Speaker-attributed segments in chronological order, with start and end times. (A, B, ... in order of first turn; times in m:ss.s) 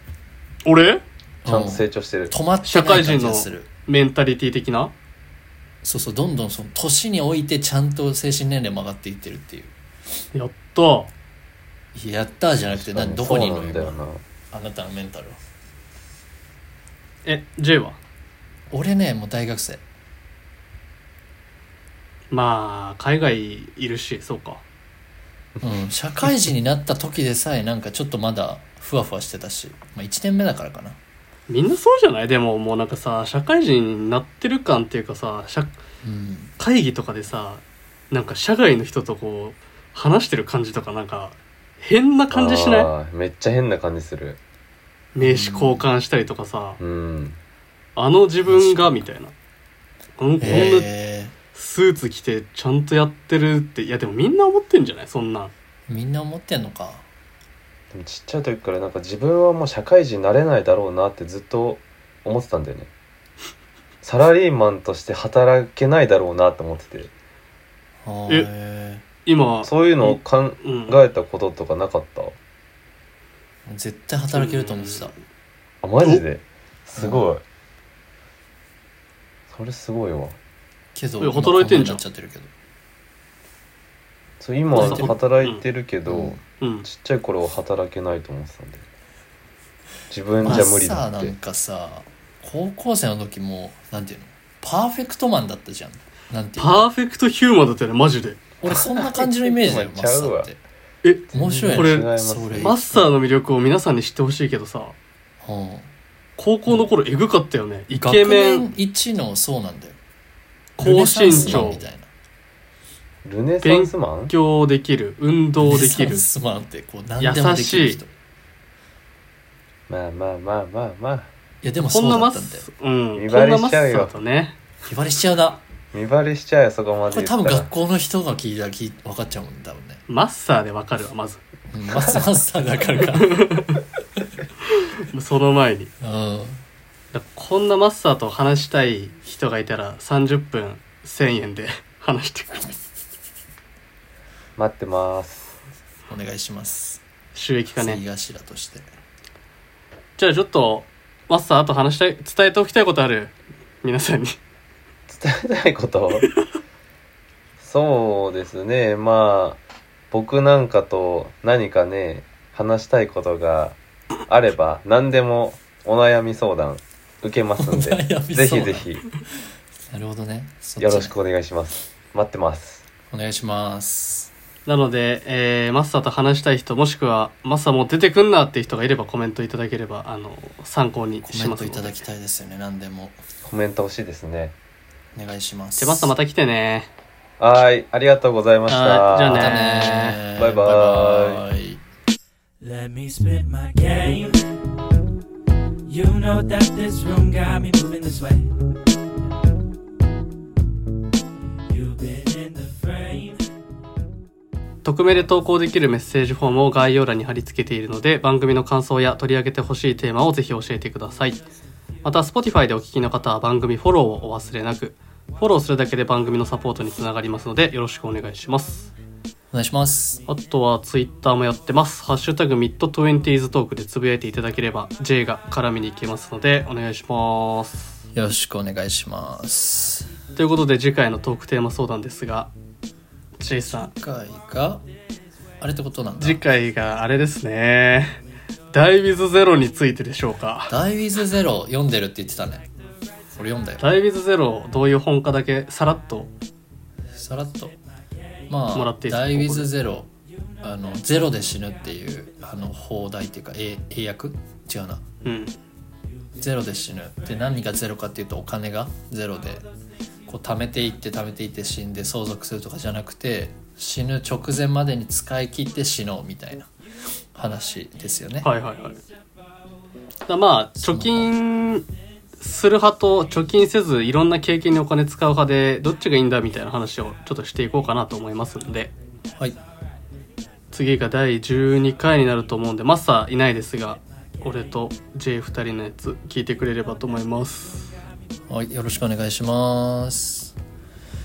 0:00.6-0:01.0 A
0:01.4-0:03.7 B
0:01.4-0:02.3 C
0:02.6-0:04.9 A
0:05.8-0:09.7 B
0:10.3-0:11.1 A
0:11.9-0:14.0 B
0:12.7-0:14.2 C
0:14.5-0:15.4 B
0:17.2-0:18.0 A
0:18.7-0:19.8 B
0:22.3-0:24.6 A
0:25.6-0:31.0 B
0:31.5-0:35.7 A
0:36.0-0:36.5 B
0:36.6-0:42.9 A
0:42.3-0:44.4 C
0:45.1-0:46.8 A
0:45.2-0:45.8 B
0:46.8-0:47.4 C
0:48.0-0:49.3 A
0:48.4-0:49.1 B
0:50.2-0:50.9 A
0:50.4-0:51.3 B
0:51.5-0:55.5 A
0:55.9-0:57.0 B
0:57.9-1:02.9 C
1:04.0-1:07.1 C
1:08.0-1:09.0 B
1:09.2-1:11.0 A
1:09.6-1:12.4 C
1:13.6-1:15.1 B
1:14.3-1:15.2 A
1:15.8-1:17.4 C
1:17.0-1:17.3 B
1:19.5-1:20.4 C
1:20.9-1:22.5 B
1:21.2-1:22.0 A
1:24.4-1:28.8 C
1:24.7-1:25.6 A
1:24.7-1:25.1 B
1:26.1-1:26.4 B
1:26.6-1:26.8 A
1:30.1-1:31.3 C
1:30.4-1:36.8 B
1:36.6-1:38.5 A
1:38.6-1:40.6 B
1:39.2-1:40.5 C
1:41.0-1:42.1 A
1:41.3-1:42.7 C
1:41.3-1:43.1 B
1:42.6-1:45.0 A
1:45.4-1:45.9 B
1:46.4-1:48.6 A
1:47.9-1:50.0 B
1:50.8-1:51.8 A
1:50.8-1:52.1 B
1:51.3-1:51.8 C
1:53.2-1:54.3 C
1:53.6-1:56.2 A
1:55.6-1:58.1 B
1:57.2-1:58.0 A
1:59.9-2:01.3 C
2:01.6-2:02.6 B
2:01.9-2:04.6 A
2:03.2-2:04.1 C
2:04.8-2:05.6 B
2:05.9-2:07.7 C
2:07.1-2:10.0 B
2:10.1-2:11.4 A
2:11.7-2:13.4 B
2:13.0-2:13.8 A
2:14.7-2:15.9 A
2:16.0-2:16.6 B
2:17.1-2:22.8 A
2:24.6-2:25.6 C
2:26.1-2:27.0 B
2:27.3-2:28.0 A
2:27.7-2:28.8 B
2:30.2-2:34.4 A
2:35.1-2:36.3 C
2:37.6-2:39.6 C
2:40.1-2:49.0 C
2:47.6-2:48.9 B
2:49.9-2:51.1 B
2:50.8-2:52.8 C
2:53.1-2:54.3 B
2:54.6-3:02.0 A
3:01.2-3:03.2 B
3:03.4-3:04.5 C
3:05.1-3:06.1 B
3:05.8-3:06.9 A
3:07.4-3:09.6 C
3:08.7-3:10.2 A
3:09.3-3:11.8 B
3:10.3-3:11.4 C
3:12.6-3:14.5 D
3:15.9-3:18.6 D
3:21.7-3:23.4 D
3:24.8-3:31.4 A
3:32.0-3:38.9 A
3:39.5-3:40.2 B
3:40.3-3:47.9 A
3:48.1-3:50.1 B
3:50.3-3:52.5 A
3:53.4-3:53.9 A
3:53.6-3:54.8 B
3:55.6-3:56.4 B
3:56.2-3:58.2 A
3:58.7-4:00.8 A
4:00.7-4:02.7 B
4:03.3-4:03.8 B
4:03.8-4:06.3 A
4:07.1-4:07.8 B
4:08.5-4:10.1 B
4:08.7-4:09.7 A
4:10.6-4:15.0 B
4:15.2-4:15.5 A
4:16.4-4:19.7 B
4:20.3-4:26.7 B
4:27.3-4:28.5 B
4:28.4-4:29.0 A
4:30.3-4:31.9 A
4:30.8-4:31.3 B
4:32.4-4:38.9 A
4:40.7-4:47.9 A
4:48.5-4:50.5 B